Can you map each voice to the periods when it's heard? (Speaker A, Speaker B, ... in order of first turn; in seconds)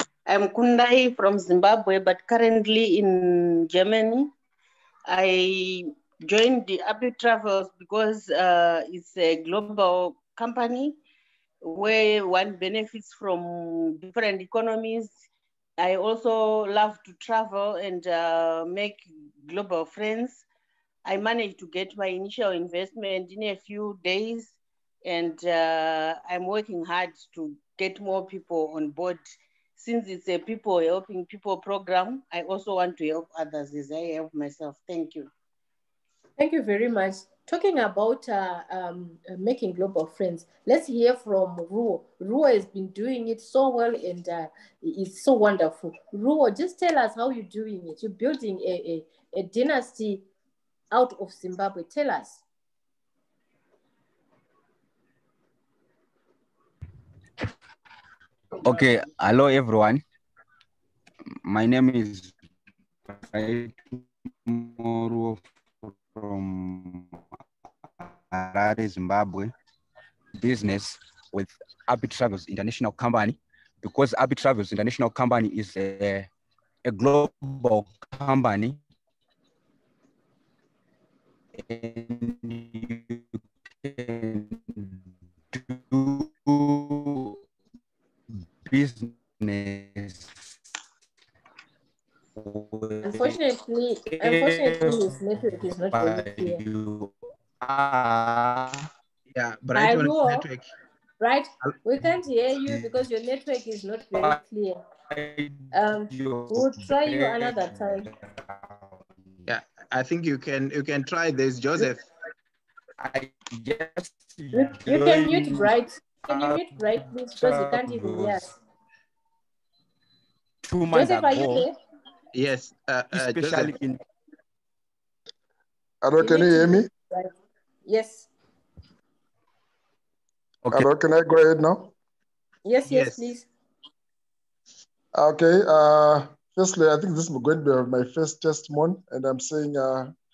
Speaker A: 0.2-4.3, 5.1-11.0, 11.6-15.2, 15.8-20.4, 21.0-29.2, 29.8-35.3
Speaker B: 36.4-50.2, 50.9-52.4, 93.0-96.6, 99.7-100.5, 101.2-104.8, 105.7-108.1, 114.5-118.5, 120.9-121.7, 126.2-127.3, 127.8-128.3, 132.6-133.5
Speaker C: 58.5-60.0, 61.4-62.3, 63.1-67.2, 68.3-69.5, 70.4-76.3, 76.8-78.8, 81.5-85.0, 85.5-87.4, 88.6-90.3, 92.3-93.4, 94.1-98.9, 102.7-102.9, 105.1-109.4, 113.0-118.5, 120.6-121.7, 123.1-124.0
Speaker D: 99.3-100.7, 109.5-112.0, 122.3-123.8, 132.8-133.2
Speaker E: 126.0-126.9, 130.7-131.9, 135.1-140.1